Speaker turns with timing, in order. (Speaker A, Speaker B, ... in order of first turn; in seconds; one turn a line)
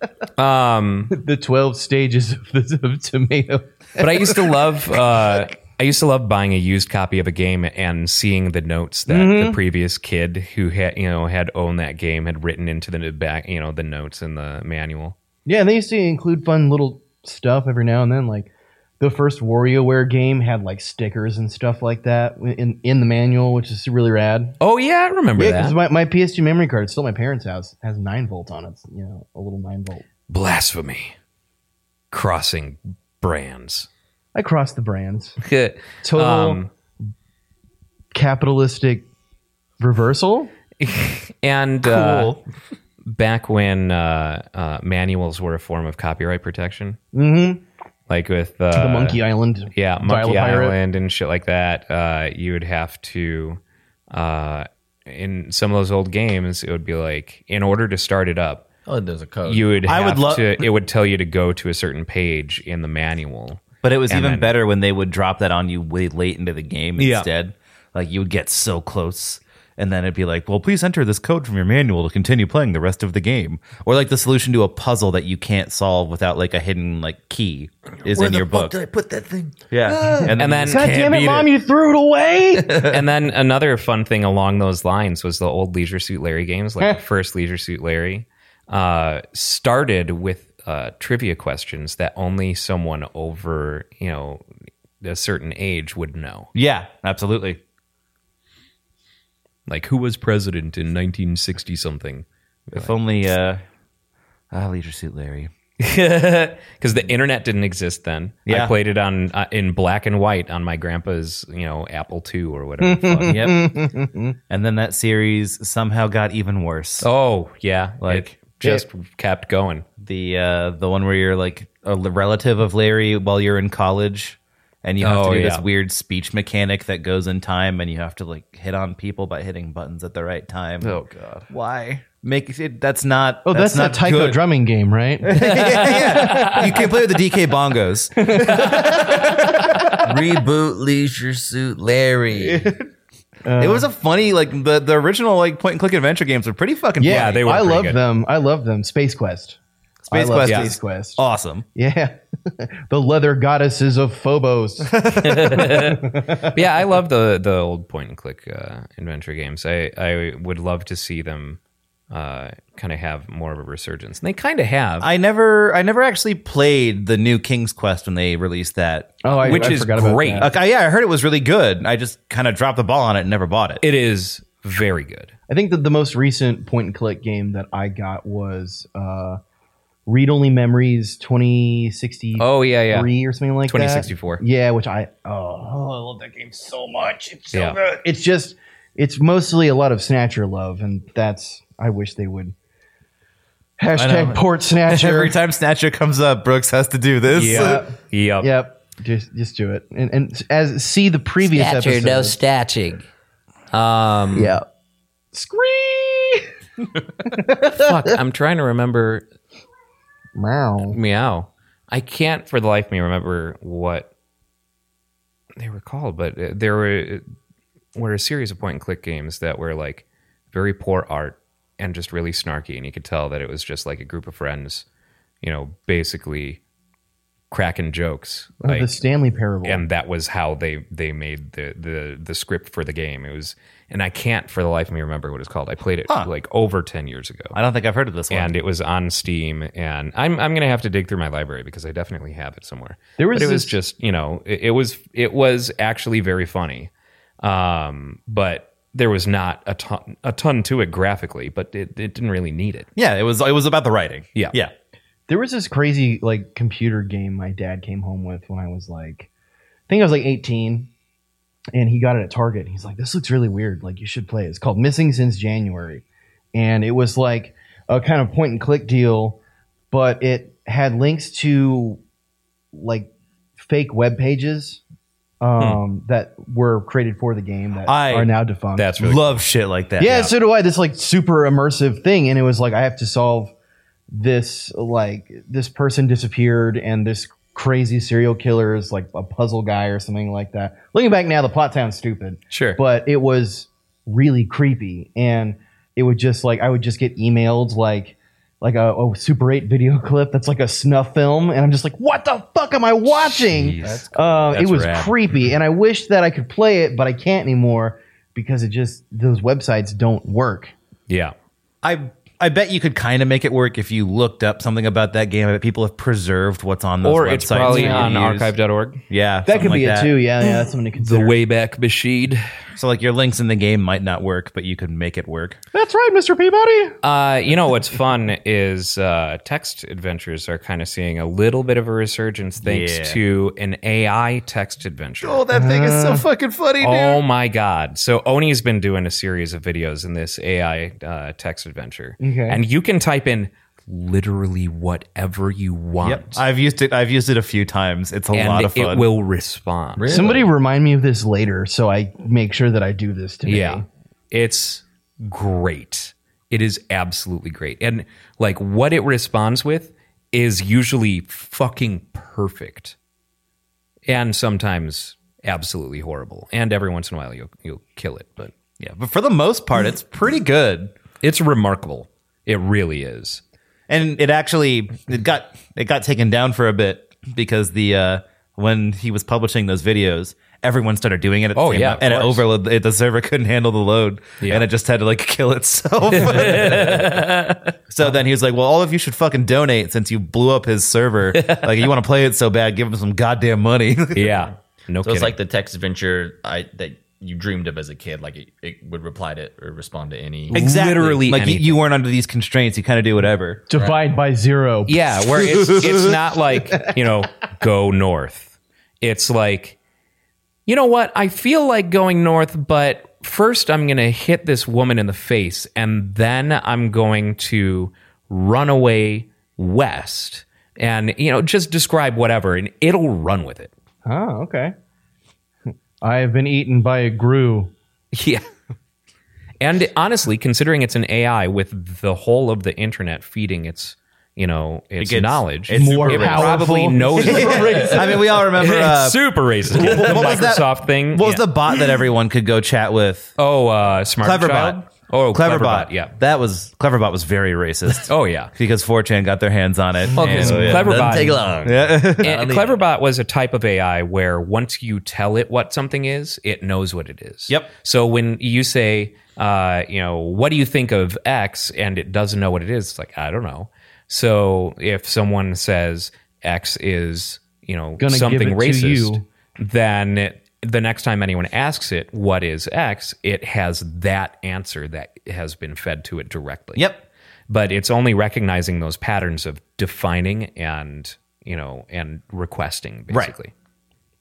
Speaker A: 0.4-1.1
Speaker B: 1.1-4.5
Speaker A: 4.0-15.2
Speaker B: 9.1-9.6
Speaker B: 15.4-24.6
Speaker A: 24.6-25.8
Speaker B: 25.4-30.0
Speaker A: 30.3-31.1
Speaker A: 32.1-33.9
Speaker B: 34.3-35.4
Speaker A: 35.4-36.7
Speaker B: 36.0-36.6
Speaker B: 38.1-39.1
Speaker B: 39.8-40.5
Speaker A: 40.8-42.4
Speaker C: 41.8-42.4
Speaker A: 43.0-47.0
Speaker B: 47.1-47.6
Speaker A: 48.1-49.2
Speaker B: 48.7-50.8
Speaker A: 49.7-53.6
Speaker A: 54.1-58.6
Speaker D: 58.9-59.7
Speaker A: 59.4-64.5
Speaker C: 59.9-60.7
Speaker C: 63.8-78.8
Speaker A: 67.0-67.3
Speaker D: 78.0-80.3
Speaker C: 79.7-81.3
Speaker A: 80.3-81.5
Speaker B: 80.7-82.9
Speaker A: 82.8-94.4
Speaker A: 95.0-96.5
Speaker C: 96.5-97.6
Speaker A: 99.7-103.0
Speaker C: 102.7-103.6
Speaker C: 104.5-105.5
Speaker A: 105.8-113.4
Speaker C: 108.5-108.7
Speaker B: 112.8-114.4
Speaker C: 113.2-113.6
Speaker C: 114.5-117.1
Speaker A: 117.0-119.9
Speaker C: 118.0-118.8
Speaker C: 120.0-134.4
Speaker A: 125.0-125.6
Speaker A: 130.8-131.5
Speaker B: 133.4-136.9
Speaker C: 135.2-139.9
Speaker A: 135.4-136.6
Speaker B: 138.2-140.0
Speaker A: 138.5-138.8
Speaker D: 140.0-142.7
Speaker C: 142.3-142.9
Speaker B: 143.4-143.9
Speaker C: 143.6-147.4
Speaker B: 147.0-149.6
Speaker A: 147.0-148.0
Speaker C: 150.1-151.7
Speaker B: 150.1-151.2
Speaker A: 150.4-150.7
Speaker B: 151.7-156.6
Speaker A: 155.2-161.6
Speaker A: 162.1-165.1
Speaker C: 165.0-169.8
Speaker B: 169.2-170.5
Speaker A: 169.3-170.5
Speaker C: 170.4-173.8
Speaker A: 173.8-175.3
Speaker B: 175.5-179.4
Speaker B: 180.1-192.5
Speaker A: 182.3-183.1
Speaker A: 183.7-184.4
Speaker A: 187.5-187.8
Speaker B: 193.8-195.3
Speaker C: 193.9-197.8
Speaker A: 197.3-198.5
Speaker B: 197.4-202.4
Speaker A: 201.6-203.0
Speaker A: 203.7-204.6
Speaker B: 204.3-204.6
Speaker B: 205.3-206.5
Speaker B: 207.2-207.9
Speaker A: 207.7-209.2
Speaker B: 210.3-211.0
Speaker A: 210.8-214.1
Speaker A: 215.6-217.2
Speaker A: 217.9-224.8
Speaker A: 225.4-226.6
Speaker A: 227.5-228.9
Speaker B: 228.6-229.8
Speaker A: 229.6-237.6
Speaker C: 237.5-238.5
Speaker A: 238.3-246.9
Speaker B: 243.2-243.8
Speaker A: 247.4-252.9
Speaker C: 252.9-254.7
Speaker B: 255.3-259.3
Speaker B: 259.9-260.9
Speaker B: 261.7-272.0
Speaker B: 272.7-274.8
Speaker B: 275.4-278.9
Speaker C: 277.9-278.3
Speaker A: 278.8-279.4
Speaker C: 279.0-280.3
Speaker B: 280.0-283.5
Speaker B: 284.1-310.7
Speaker A: 292.5-292.8
Speaker A: 303.1-305.1
Speaker D: 303.8-304.1
Speaker A: 311.1-311.3
Speaker C: 311.8-318.5
Speaker A: 317.0-319.0
Speaker B: 317.6-318.1
Speaker C: 319.1-320.1
Speaker B: 319.4-321.4
Speaker A: 320.9-322.5
Speaker C: 322.7-325.6
Speaker B: 325.7-327.0
Speaker A: 327.0-335.4
Speaker C: 332.6-333.2
Speaker C: 335.2-337.2
Speaker B: 335.5-336.2
Speaker A: 336.8-346.4
Speaker B: 342.2-342.6
Speaker C: 346.0-349.1
Speaker A: 348.3-350.3
Speaker D: 350.0-350.5
Speaker B: 350.1-353.8
Speaker A: 353.4-362.9
Speaker A: 364.1-368.5
Speaker C: 368.8-370.9
Speaker A: 371.2-373.4
Speaker C: 373.9-387.3
Speaker A: 381.5-382.4
Speaker A: 386.1-388.1
Speaker C: 387.9-394.4
Speaker A: 391.3-391.7
Speaker A: 394.1-395.4
Speaker D: 395.0-400.6
Speaker A: 400.5-401.8
Speaker C: 400.5-403.6
Speaker B: 403.7-405.0
Speaker D: 403.7-404.0
Speaker A: 404.9-409.8
Speaker C: 405.5-406.1
Speaker A: 410.6-423.7
Speaker B: 424.0-424.7
Speaker B: 426.0-427.7
Speaker A: 428.1-428.4
Speaker A: 429.6-441.5
Speaker C: 435.0-443.4
Speaker B: 435.7-438.2
Speaker A: 443.4-446.1
Speaker C: 444.2-451.0
Speaker A: 448.0-448.5
Speaker A: 450.1-451.5
Speaker D: 450.1-452.8
Speaker C: 451.6-452.3
Speaker A: 452.2-476.9
Speaker B: 468.0-469.2
Speaker C: 476.7-477.0
Speaker A: 477.5-483.5
Speaker C: 483.1-483.3